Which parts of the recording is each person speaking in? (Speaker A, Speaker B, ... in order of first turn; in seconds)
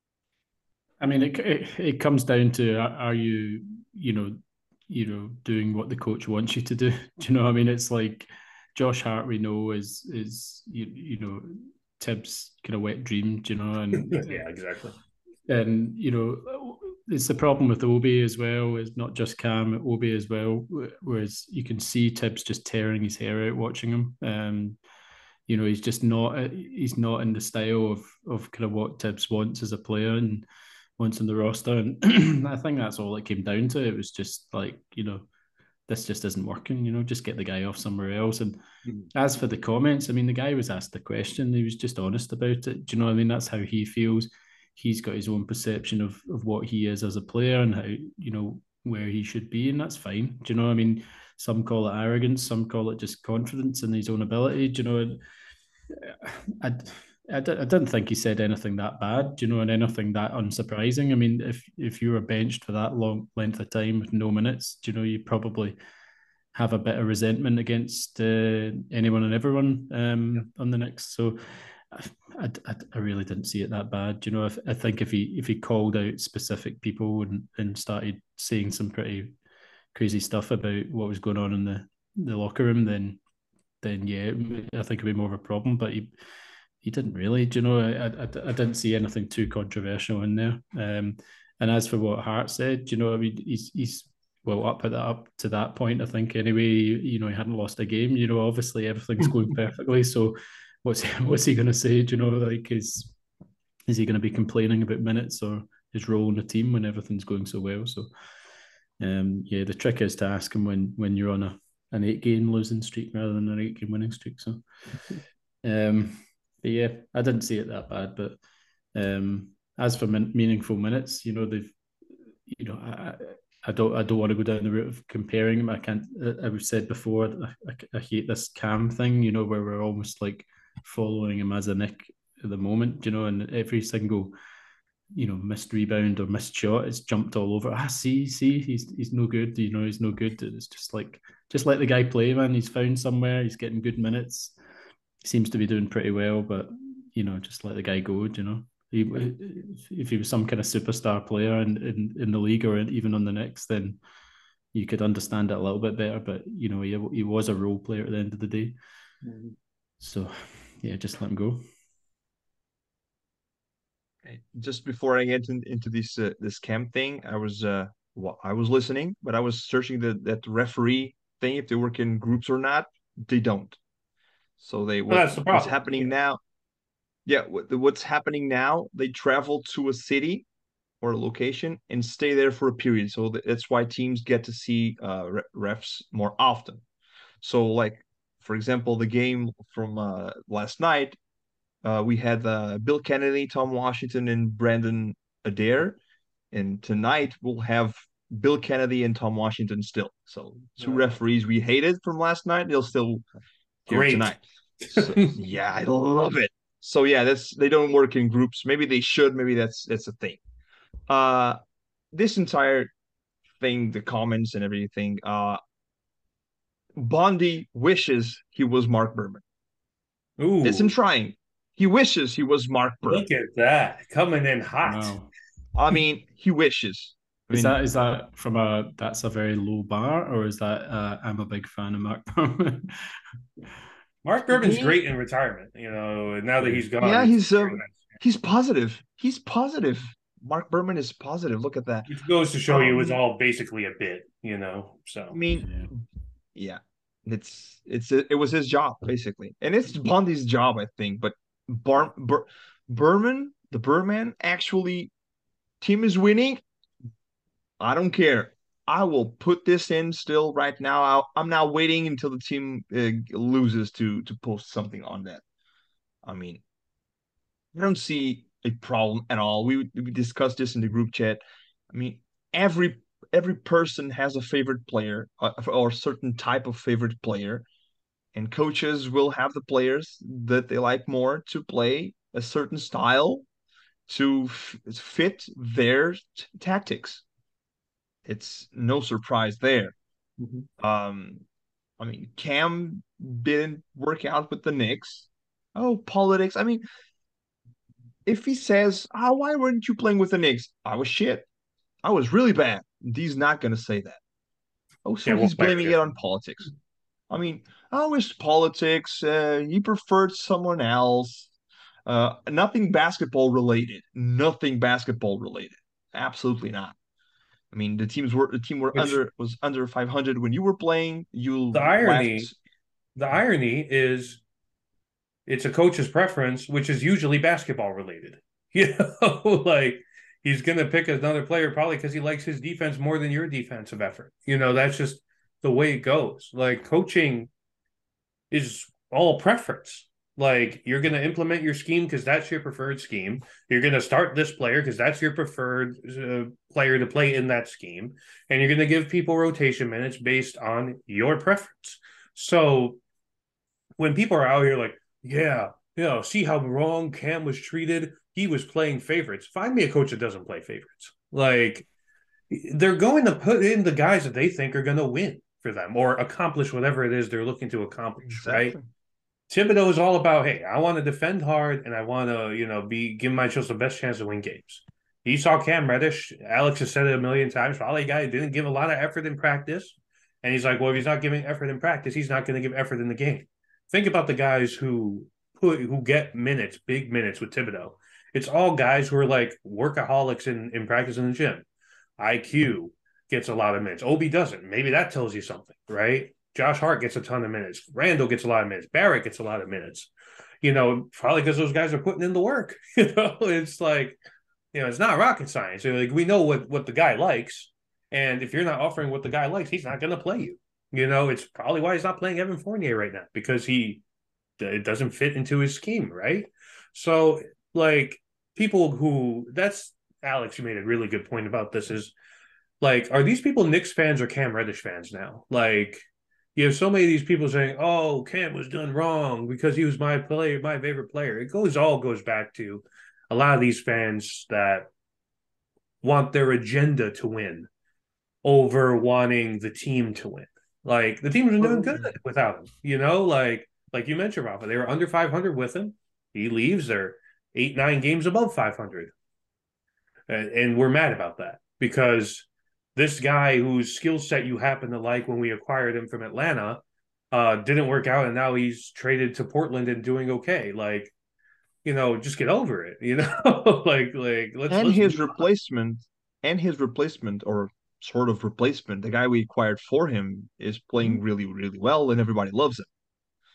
Speaker A: 1.0-14.4, 15.5-24.8, 25.5-30.4, 31.0-35.3, 35.9-38.6, 39.1-55.2, 55.9-65.8, 66.5-79.3, 79.9-83.2, 83.8-86.1, 86.8-103.2, 103.9-108.1, 109.0-114.6, 115.6-118.4, 118.9-121.8, 122.5-134.3, 135.1-144.6, 145.2-154.0, 154.7-158.8, 160.0-161.6, 224.8-225.3, 227.5-233.1, 245.6-245.9
Speaker B: 13.9-14.9, 159.2-159.5, 175.1-176.1, 203.9-205.3, 220.4-220.9, 223.1-225.1, 234.2-238.2, 242.1-245.4, 290.4-290.7, 305.2-306.0, 321.7-322.5, 323.1-324.4, 325.5-337.5, 338.5-353.0, 354.0-361.9, 362.5-368.7, 369.5-391.6, 392.2-400.1, 400.6-404.2, 404.7-414.0, 414.6-422.1, 422.8-426.0, 426.6-434.9, 436.0-437.7, 438.4-449.1, 450.3-461.1, 461.8-465.4
Speaker C: 164.2-173.8, 174.6-176.4, 177.2-180.5, 181.0-186.8, 187.4-191.2, 191.8-196.0, 196.5-203.2, 203.9-210.4, 211.1-211.6, 212.1-212.9, 213.6-215.6, 216.9-219.4, 220.6-223.2, 225.7-227.8, 234.5-235.0, 237.0-242.1, 242.7-243.2, 245.3-245.7, 246.5-255.1, 255.8-256.6, 257.8-265.4, 266.2-266.6, 267.7-277.6, 278.3-283.4, 284.1-287.2, 288.2-289.9, 290.8-291.4, 292.0-296.8, 298.2-301.5, 302.0-304.2, 305.0-306.7, 307.3-311.5, 312.1-316.9, 317.7-322.5, 368.2-368.8, 441.6-442.1, 464.7-472.9